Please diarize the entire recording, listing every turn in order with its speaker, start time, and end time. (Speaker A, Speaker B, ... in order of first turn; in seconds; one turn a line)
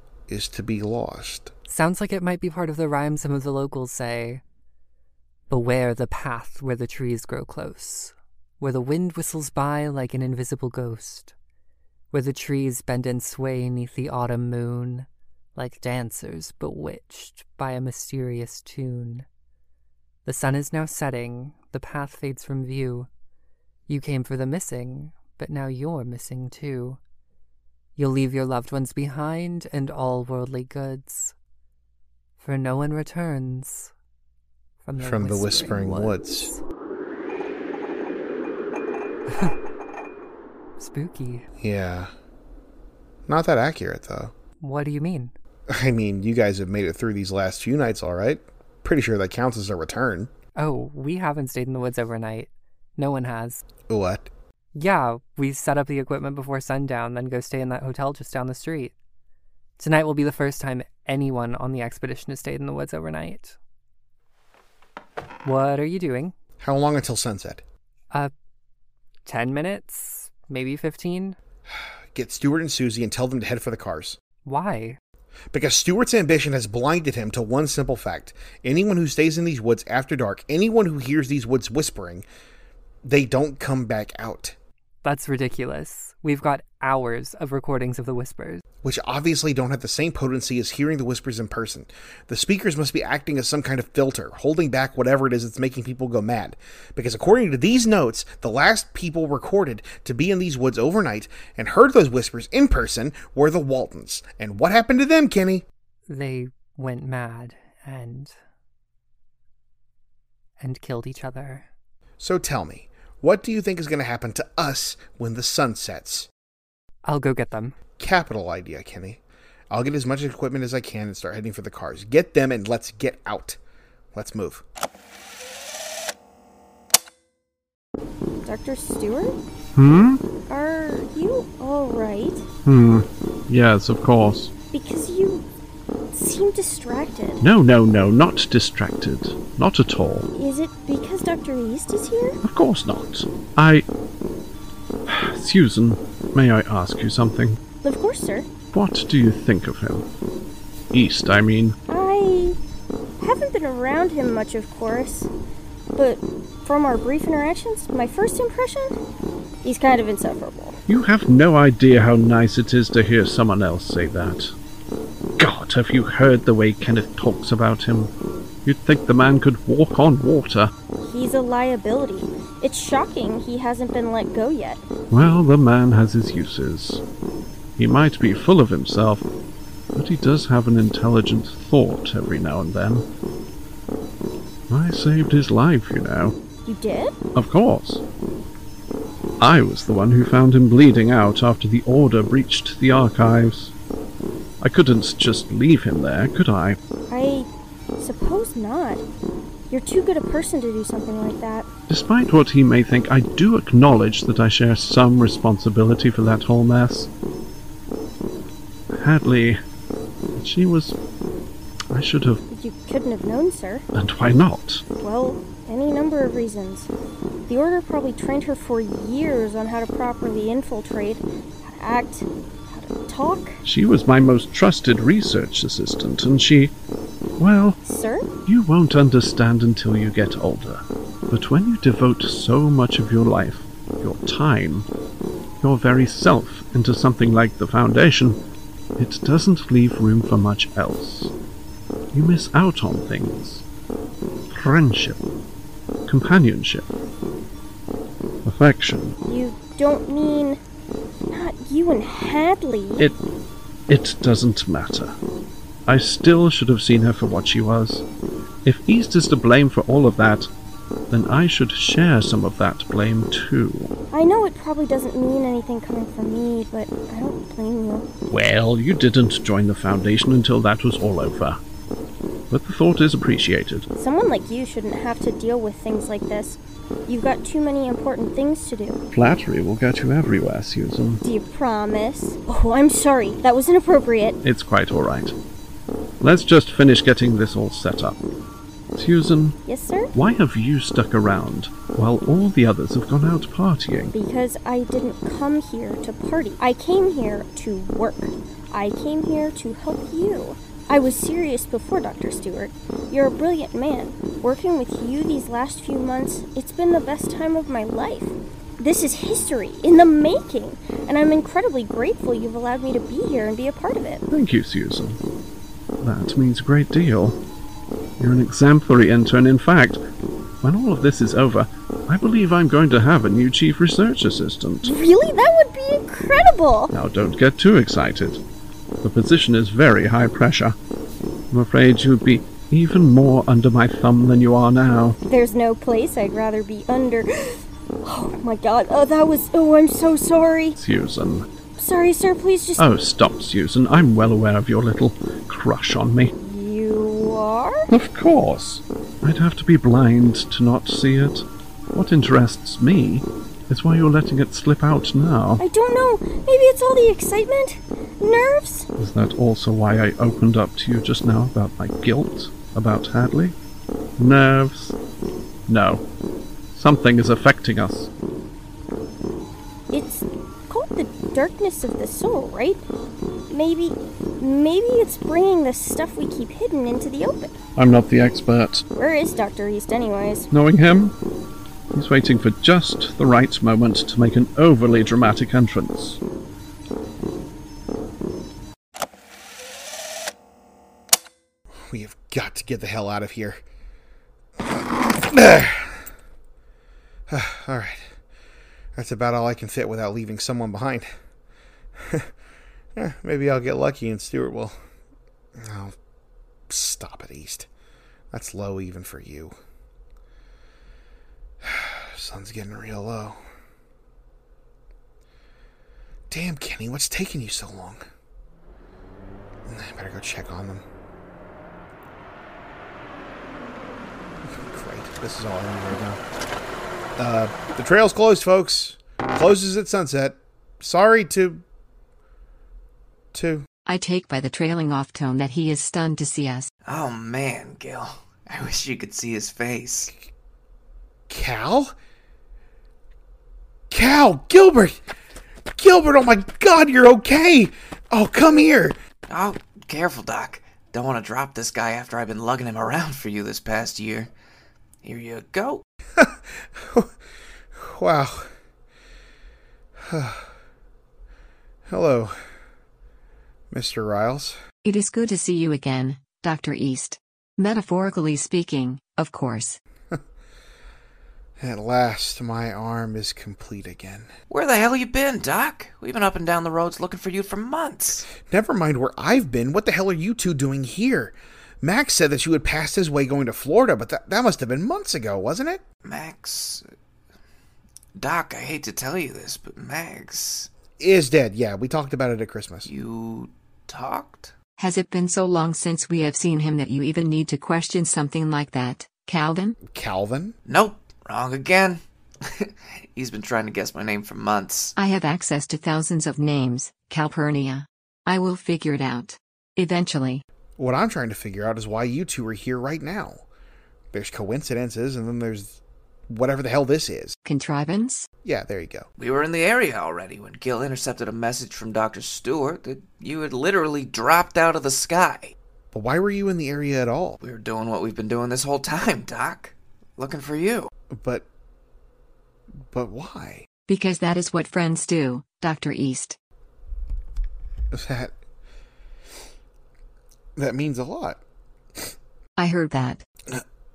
Speaker A: 0.3-1.5
Speaker B: 1.7-4.4
Speaker B: 5.5-11.3
Speaker B: 12.1-19.2
Speaker B: 20.2-23.1
Speaker B: 23.9-27.0
Speaker B: 28.0-31.3
Speaker B: 32.4-33.9
Speaker B: 34.8-36.6
Speaker A: 35.0-36.5
Speaker B: 40.8-41.5
Speaker A: 41.6-42.1
Speaker A: 43.3-44.3
Speaker B: 44.6-45.3
Speaker A: 45.7-50.3
Speaker B: 50.5-53.6
Speaker A: 53.9-54.3
Speaker B: 54.7-58.9
Speaker B: 59.8-63.5
Speaker B: 65.4-66.3
Speaker A: 66.6-67.6
Speaker B: 69.2-71.3
Speaker A: 72.1-74.2
Speaker B: 74.4-75.0
Speaker A: 75.5-82.2
Speaker A: 83.0-84.5
Speaker B: 85.0-88.6
Speaker A: 88.8-105.6
Speaker B: 106.1-108.3
Speaker B: 110.6-111.7
Speaker A: 112.2-116.3
Speaker B: 117.0-117.7
Speaker A: 118.0-123.6
Speaker A: 124.1-124.6
Speaker C: 128.4-129.3
Speaker D: 129.8-130.2
Speaker C: 130.5-132.4
Speaker D: 132.6-134.5
Speaker C: 134.7-135.4
Speaker C: 136.1-137.4
Speaker D: 137.4-140.3
Speaker C: 140.3-142.4
Speaker D: 142.4-143.8
Speaker D: 145.1-147.6
Speaker C: 147.8-148.5
Speaker D: 148.7-150.1
Speaker D: 150.9-151.8
Speaker C: 151.9-152.6
Speaker C: 153.2-155.3
Speaker C: 155.9-158.9
Speaker C: 159.6-160.8
Speaker D: 160.9-164.5
Speaker D: 165.4-168.1
Speaker D: 168.6-170.7
Speaker C: 171.0-174.8
Speaker D: 175.1-177.0
Speaker D: 177.8-179.3
Speaker D: 179.9-183.1
Speaker D: 184.7-186.3
Speaker C: 186.7-187.1
Speaker D: 187.3-188.0
Speaker D: 189.4-193.7
Speaker D: 194.6-196.8
Speaker C: 197.1-199.0
Speaker C: 199.7-201.7
Speaker D: 201.9-207.1
Speaker D: 208.9-209.6
Speaker D: 210.3-211.0
Speaker D: 211.9-212.4
Speaker C: 212.5-213.8
Speaker D: 213.9-214.8
Speaker C: 215.0-216.9
Speaker C: 217.5-223.6
Speaker D: 223.6-226.7
Speaker D: 227.4-227.8
Speaker C: 227.8-228.2
Speaker D: 228.4-234.9
Speaker D: 235.6-238.4
Speaker D: 239.0-241.3
Speaker D: 242.1-243.6
Speaker D: 244.5-245.2
Speaker D: 246.1-246.9
Speaker D: 248.4-249.2
Speaker C: 249.2-250.6
Speaker C: 251.3-253.1
Speaker D: 253.9-255.1
Speaker D: 255.8-258.0
Speaker D: 258.6-260.5
Speaker D: 261.1-263.9
Speaker C: 264.1-268.1
Speaker D: 268.3-271.6
Speaker D: 272.5-273.9
Speaker C: 273.9-279.0
Speaker D: 279.1-281.2
Speaker C: 281.2-284.4
Speaker D: 284.4-285.4
Speaker D: 286.2-288.1
Speaker D: 288.9-289.6
Speaker C: 289.6-290.1
Speaker D: 290.1-294.1
Speaker C: 294.1-314.2
Speaker D: 314.3-315.2
Speaker D: 316.0-317.4
Speaker D: 318.2-320.0
Speaker D: 320.6-324.9
Speaker C: 324.8-326.9
Speaker D: 326.9-328.4
Speaker D: 329.0-330.8
Speaker D: 331.5-335.2
Speaker C: 335.2-340.8
Speaker D: 340.8-341.5
Speaker C: 341.8-342.9
Speaker D: 342.8-346.3
Speaker C: 346.4-347.9
Speaker D: 347.9-355.6
Speaker C: 355.6-358.9
Speaker D: 359.0-363.5
Speaker D: 364.2-365.0
Speaker D: 365.7-366.0
Speaker D: 366.7-368.1
Speaker C: 369.9-372.8
Speaker C: 373.5-377.5
Speaker D: 377.8-378.8
Speaker C: 378.9-380.5
Speaker D: 380.5-381.1
Speaker D: 381.9-386.2
Speaker A: 391.9-393.6
Speaker A: 395.1-396.0
Speaker A: 397.3-398.0
Speaker A: 398.9-401.1
Speaker A: 402.9-404.8
Speaker A: 405.6-405.9
Speaker A: 406.7-407.7
Speaker A: 408.3-409.6
Speaker A: 411.6-413.4
Speaker A: 416.3-418.0
Speaker A: 419.7-420.8
Speaker A: 424.5-426.2
Speaker A: 427.2-431.6
Speaker A: 433.3-433.6
Speaker E: 433.9-436.7
Speaker F: 436.9-440.1
Speaker A: 441.3-441.9
Speaker A: 443.9-445.0
Speaker A: 445.8-449.0
Speaker F: 449.3-454.3
Speaker F: 455.0-455.8
Speaker A: 456.2-457.1
Speaker A: 457.7-458.5
Speaker A: 460.1-460.5
Speaker A: 461.9-462.3
Speaker A: 463.7-464.6
Speaker E: 464.8-469.8
Speaker A: 471.6-474.3
Speaker F: 474.5-478.3
Speaker A: 478.3-485.8
Speaker F: 486.0-486.8
Speaker F: 488.1-490.7
Speaker A: 491.0-492.9
Speaker F: 492.8-494.5
Speaker E: 494.8-499.8
Speaker A: 499.9-500.5
Speaker F: 500.6-502.0
Speaker F: 502.5-504.9
Speaker E: 504.9-510.4
Speaker A: 510.8-513.4
Speaker A: 514.1-517.4
Speaker E: 517.4-518.3
Speaker A: 518.4-519.1
Speaker F: 519.2-525.5
Speaker A: 525.9-527.4
Speaker F: 527.4-530.9
Speaker A: 531.1-531.5
Speaker A: 532.9-533.6
Speaker E: 533.9-536.4
Speaker A: 537.9-538.3
Speaker A: 540.6-541.4
Speaker E: 542.5-543.2